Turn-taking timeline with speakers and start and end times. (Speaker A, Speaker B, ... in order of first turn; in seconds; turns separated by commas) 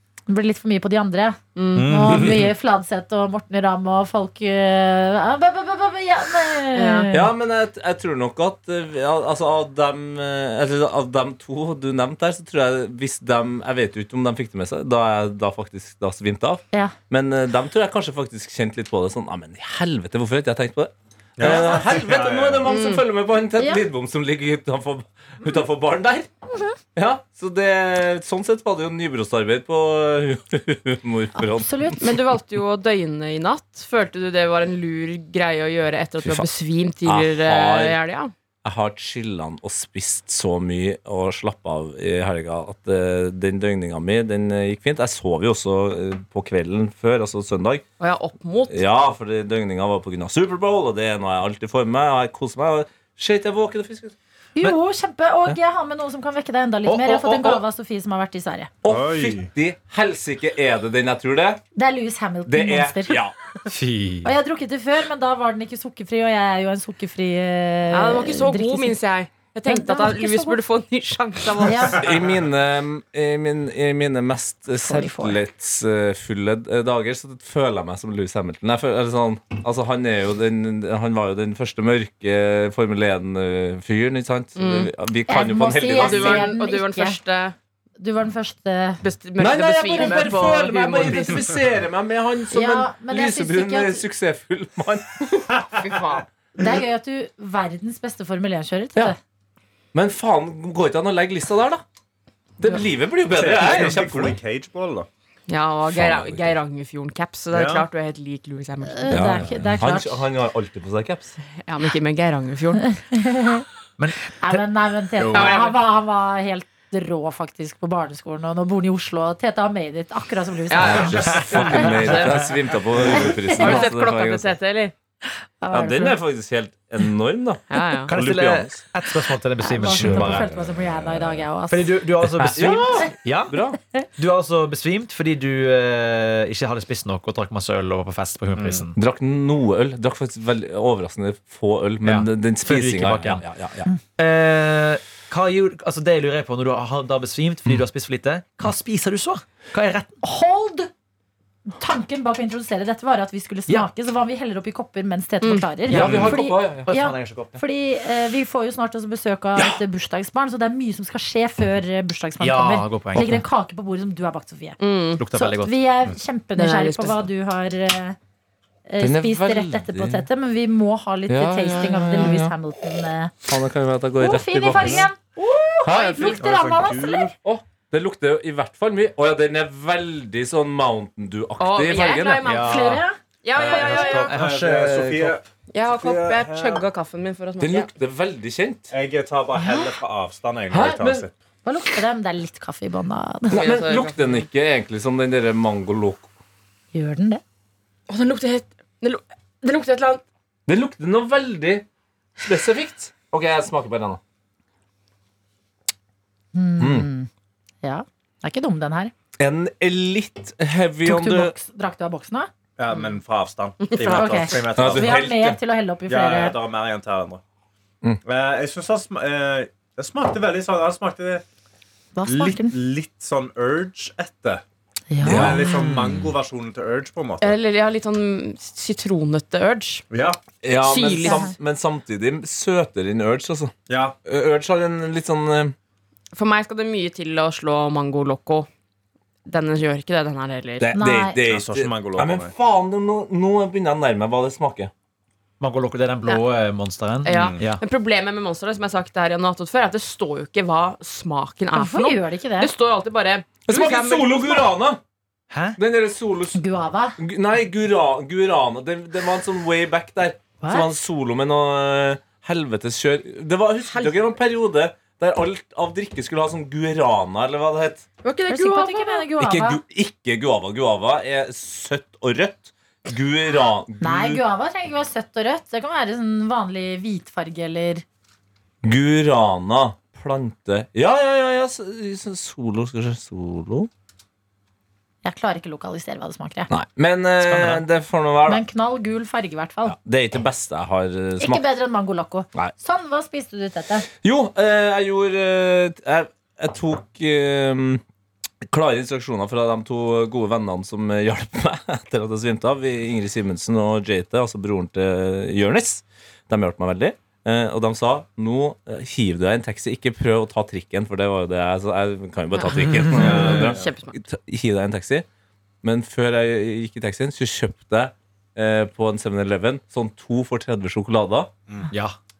Speaker A: 0.3-7.3, Speaker B: 1.6-2.3, Speaker C: 1.7-2.5, Speaker B: 6.7-7.1, Speaker D: 7.1-26.3, Speaker E: 21.4-22.7, Speaker B: 22.6-23.0, Speaker A: 23.6-23.9, Speaker D: 26.9-32.1, Speaker A: 31.4-32.0, Speaker B: 32.0-38.3, Speaker D: 36.2-36.5, Speaker D: 37.0-38.0, Speaker D: 38.6-47.8, Speaker B: 48.0-48.8, Speaker D: 48.7-54.8, Speaker A: 54.5-58.7, Speaker D: 56.9-57.6, Speaker D: 58.8-61.6, Speaker E: 58.9-59.5, Speaker A: 61.7-63.2, Speaker D: 62.5-63.3, Speaker C: 63.7-64.3, Speaker A: 64.2-69.0, Speaker B: 67.9-72.0, Speaker A: 69.7-70.6, Speaker A: 71.6-72.0, Speaker D: 72.0-86.5, Speaker A: 74.8-75.4, Speaker B: 84.5-84.9, Speaker A: 85.3-87.2, Speaker B: 86.0-87.5, Speaker A: 88.0-89.0, Speaker B: 89.0-91.5, Speaker D: 89.4-95.6, Speaker A: 90.0-90.7, Speaker A: 92.5-94.0, Speaker B: 95.8-96.2, Speaker A: 96.5-99.2, Speaker D: 99.9-101.8, Speaker D: 102.6-104.4, Speaker E: 103.2-105.1, Speaker B: 105.5-109.5, Speaker D: 105.9-106.5, Speaker E: 107.5-107.9, Speaker A: 108.8-110.2, Speaker D: 109.1-111.3, Speaker B: 111.5-112.9, Speaker A: 112.9-113.6, Speaker C: 114.0-114.4, Speaker A: 114.3-121.9, Speaker E: 115.2-115.6, Speaker B: 115.3-115.8, Speaker B: 120.7-122.5, Speaker D: 120.8-124.5, Speaker C: 121.3-121.7, Speaker A: 123.2-123.8, Speaker B: 123.2-124.9, Speaker A: 125.6-126.2, Speaker D: 125.7-128.8, Speaker B: 127.7-128.1, Speaker C: 128.1-130.5, Speaker A: 129.6-132.0, Speaker D: 129.8-130.5, Speaker C: 131.7-133.6, Speaker D: 132.3-133.8, Speaker C: 134.2-138.9, Speaker E: 138.6-138.9, Speaker D: 138.9-143.9, Speaker C: 142.0-143.4, Speaker C: 144.2-150.1, Speaker A: 150.2-150.9, Speaker A: 151.8-164.8, Speaker D: 155.9-156.9, Speaker C: 155.9-157.6, Speaker D: 159.6-159.8, Speaker C: 162.4-163.4, Speaker B: 164.8-165.2, Speaker C: 165.2-166.1, Speaker A: 165.3-168.2, Speaker B: 166.6-167.2, Speaker A: 168.9-173.3, Speaker D: 169.0-170.3, Speaker D: 171.3-172.5, Speaker D: 173.5-175.1, Speaker A: 174.2-177.3, Speaker D: 175.8-176.6, Speaker B: 175.9-176.4, Speaker E: 176.2-177.3, Speaker D: 177.3-182.7, Speaker B: 181.6-184.3, Speaker E: 182.4-183.0, Speaker A: 182.5-183.2, Speaker E: 183.5-186.8, Speaker C: 183.6-185.4, Speaker B: 185.7-187.9, Speaker D: 187.6-188.9, Speaker E: 188.9-191.3, Speaker D: 190.7-191.3, Speaker A: 191.6-193.6, Speaker D: 193.5-196.3, Speaker B: 193.5-194.4, Speaker A: 196.9-197.4, Speaker B: 198.1-200.2, Speaker D: 200.7-201.8, Speaker D: 202.4-204.2, Speaker A: 206.5-207.3, Speaker D: 206.8-207.1, Speaker A: 207.8-209.1, Speaker D: 209.4-211.5, Speaker A: 211.0-212.5, Speaker E: 212.8-215.2, Speaker B: 213.8-214.2, Speaker A: 214.0-216.6, Speaker D: 214.7-215.6, Speaker E: 216.1-217.4, Speaker E: 218.2-221.4, Speaker A: 222.1-222.8, Speaker E: 222.2-224.6, Speaker A: 225.1-226.3, Speaker E: 225.2-227.6, Speaker D: 225.2-225.7, Speaker B: 227.4-230.0, Speaker E: 230.1-230.4, Speaker D: 230.6-235.7, Speaker B: 230.8-231.5, Speaker A: 231.2-231.5, Speaker E: 233.9-234.2, Speaker B: 236.3-238.7, Speaker B: 239.4-240.9, Speaker D: 240.8-244.9, Speaker A: 240.9-241.4, Speaker E: 241.4-242.5, Speaker C: 245.6-247.8, Speaker E: 247.2-247.7, Speaker B: 247.2-254.7, Speaker A: 251.7-252.7, Speaker D: 253.7-255.0, Speaker C: 255.5-255.8, Speaker D: 255.8-256.6, Speaker A: 256.5-257.2, Speaker D: 257.2-268.1, Speaker A: 260.6-260.9, Speaker B: 268.2-269.2, Speaker A: 268.5-269.8, Speaker D: 269.4-274.4, Speaker A: 274.0-278.0, Speaker D: 278.8-283.9, Speaker A: 285.2-286.7, Speaker D: 286.7-288.6, Speaker C: 287.4-287.8, Speaker A: 288.4-289.9, Speaker D: 289.9-291.6, Speaker A: 291.4-294.1, Speaker D: 294.2-298.0, Speaker D: 298.7-315.2, Speaker B: 312.5-314.2, Speaker E: 313.1-313.8, Speaker D: 315.8-321.5, Speaker C: 321.9-322.1